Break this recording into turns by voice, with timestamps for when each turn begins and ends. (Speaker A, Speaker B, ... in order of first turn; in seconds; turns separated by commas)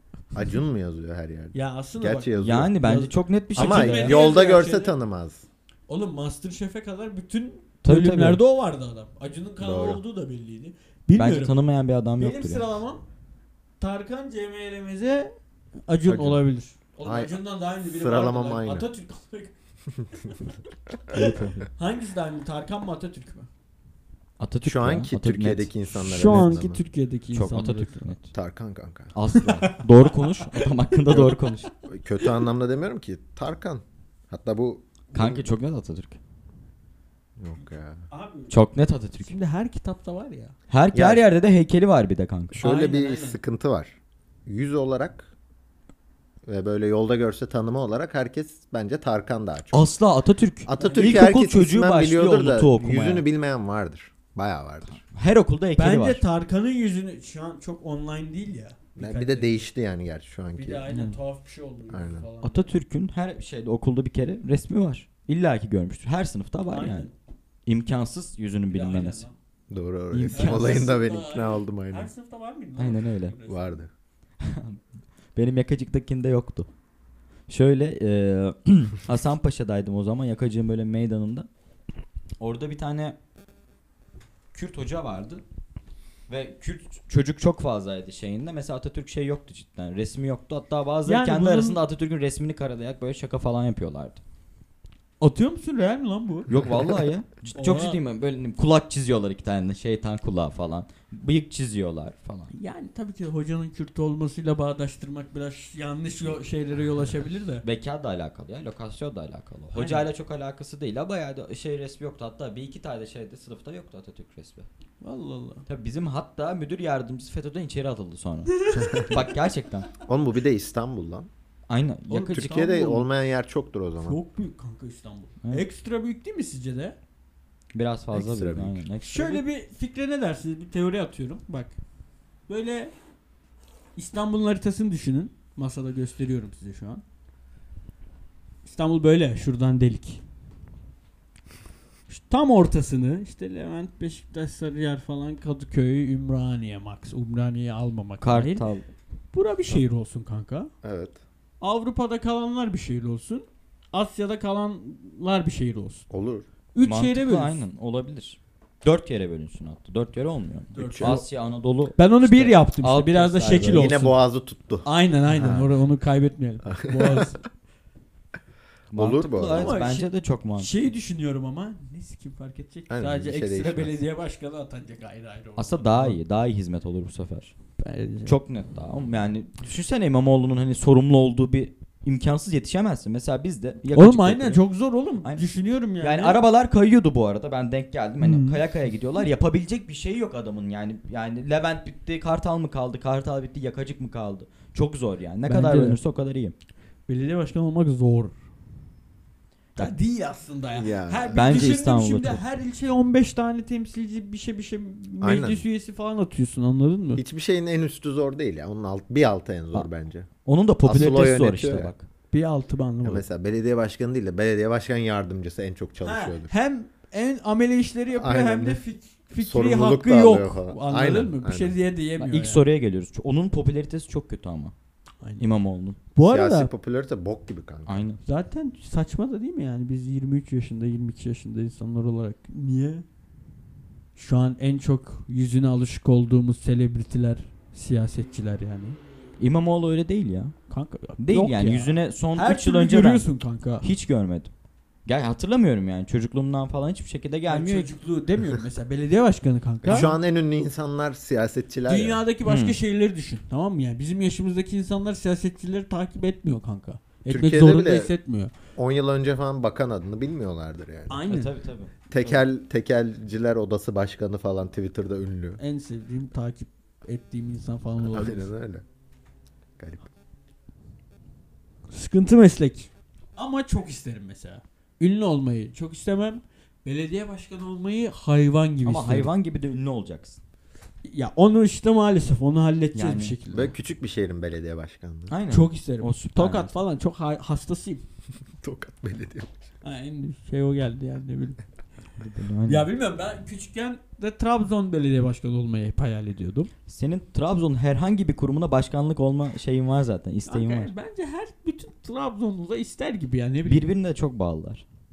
Speaker A: 0.3-2.8, Speaker B: 1.5-4.9, Speaker C: 2.4-4.2, Speaker A: 3.6-5.5, Speaker B: 5.9-11.6, Speaker C: 7.8-8.4, Speaker A: 9.6-10.0, Speaker C: 11.2-12.6, Speaker B: 12.2-13.0, Speaker B: 13.8-15.3, Speaker B: 15.9-19.5, Speaker A: 16.1-16.4, Speaker A: 17.0-17.4, Speaker A: 17.9-18.9, Speaker C: 21.1-21.7, Speaker B: 21.8-23.5, Speaker C: 24.4-25.7, Speaker A: 24.6-26.8, Speaker B: 26.0-28.1, Speaker C: 27.3-28.3, Speaker A: 28.3-29.1, Speaker C: 29.1-31.7, Speaker B: 29.5-30.7, Speaker A: 31.1-35.4, Speaker C: 35.1-36.2, Speaker A: 37.4-38.0, Speaker B: 38.1-38.5, Speaker C: 38.5-39.4, Speaker B: 39.2-40.5, Speaker C: 40.7-42.5, Speaker A: 40.9-41.2, Speaker A: 42.5-45.3, Speaker B: 42.6-43.4, Speaker A: 46.5-49.9, Speaker C: 49.7-53.2, Speaker A: 50.7-55.0, Speaker B: 50.8-51.3, Speaker C: 55.0-56.2, Speaker B: 55.8-59.6, Speaker A: 59.0-60.9, Speaker B: 60.5-62.7, Speaker A: 61.9-62.3, Speaker C: 62.4-67.1, Speaker B: 66.7-67.1, Speaker C: 67.7-69.2, Speaker B: 68.7-69.3, Speaker A: 69.7-72.1, Speaker C: 70.1-70.8, Speaker B: 70.3-73.7, Speaker C: 72.8-73.3, Speaker A: 73.5-73.9, Speaker C: 74.4-74.8, Speaker C: 75.4-76.7, Speaker C: 77.5-81.5, Speaker C: 82.4-83.2, Speaker C: 84.5-85.4, Speaker C: 86.3-94.2, Speaker B: 91.1-91.8, Speaker B: 95.2-96.5, Speaker C: 96.5-102.5, Speaker B: 97.5-98.0, Speaker B: 102.5-107.6, Speaker C: 107.6-114.7, Speaker B: 109.7-110.1, Speaker B: 115.0-115.6, Speaker C: 115.7-119.9, Speaker B: 118.6-119.1, Speaker A: 120.1-121.3, Speaker C: 121.7-122.5, Speaker B: 122.1-123.1, Speaker A: 122.2-124.2, Speaker B: 124.0-127.0, Speaker C: 127.7-129.4, Speaker A: 128.1-128.8, Speaker B: 129.0-131.8, Speaker B: 132.5-132.9, Speaker B: 134.0-137.0, Speaker B: 138.7-140.2, Speaker B: 142.1-148.7, Speaker C: 148.2-148.8, Speaker B: 149.3-150.7, Speaker A: 150.8-151.2, Speaker B: 151.6-156.1, Speaker A: 156.1-156.4, Speaker B: 156.7-157.6, Speaker C: 156.8-163.9, Speaker B: 160.7-161.3, Speaker A: 160.8-161.2, Speaker B: 162.0-164.2, Speaker A: 163.6-164.9, Speaker B: 164.8-167.4, Speaker C: 165.3-165.7, Speaker A: 166.7-167.3, Speaker C: 168.9-170.9, Speaker A: 168.9-169.8, Speaker B: 169.5-176.2, Speaker A: 172.9-173.9, Speaker C: 175.6-177.5, Speaker B: 177.8-178.3, Speaker C: 178.3-184.6, Speaker B: 183.9-186.4, Speaker C: 185.2-196.5, Speaker B: 188.2-188.6, Speaker B: 195.5-196.0, Speaker B: 197.1-198.4, Speaker B: 199.8-207.2, Speaker A: 200.8-201.4, Speaker C: 201.3-202.4, Speaker A: 205.2-205.6, Speaker A: 207.2-210.3, Speaker C: 210.4-212.0, Speaker A: 210.8-211.9, Speaker B: 212.3-213.2, Speaker A: 213.0-216.5, Speaker B: 216.0-222.6, Speaker A: 218.2-218.8, Speaker A: 219.4-221.8, Speaker C: 222.2-224.7, Speaker C: 225.4-226.0, Speaker B: 226.1-226.7, Speaker A: 226.3-228.0, Speaker C: 227.9-228.2, Speaker B: 228.2-233.0, Speaker B: 234.2-239.0, Speaker C: 239.4-240.6, Speaker B: 240.7-243.9, Speaker C: 241.2-243.3, Speaker C: 243.8-244.5, Speaker C: 245.1-247.9, Speaker B: 247.5-250.1, Speaker A: 249.8-252.2, Speaker B: 251.9-258.5, Speaker C: 252.4-252.8, Speaker A: 257.3-258.1, Speaker A: 258.8-261.2, Speaker B: 261.1-261.5, Speaker C: 261.3-261.9, Speaker A: 262.1-265.6, Speaker B: 265.6-268.5, Speaker A: 268.0-268.8, Speaker A: 269.8-270.0, Speaker B: 271.9-279.3, Speaker C: 278.9-280.4, Speaker B: 281.0-283.8, Speaker C: 282.9-283.4, Speaker A: 283.5-285.3, Speaker C: 285.3-286.7, Speaker B: 285.5-288.0, Speaker A: 288.6-289.5, Speaker B: 289.8-291.6, Speaker C: 292.2-292.9, Speaker B: 292.7-296.7, Speaker C: 296.9-300.9, Speaker B: 300.5-303.9, Speaker C: 303.7-304.9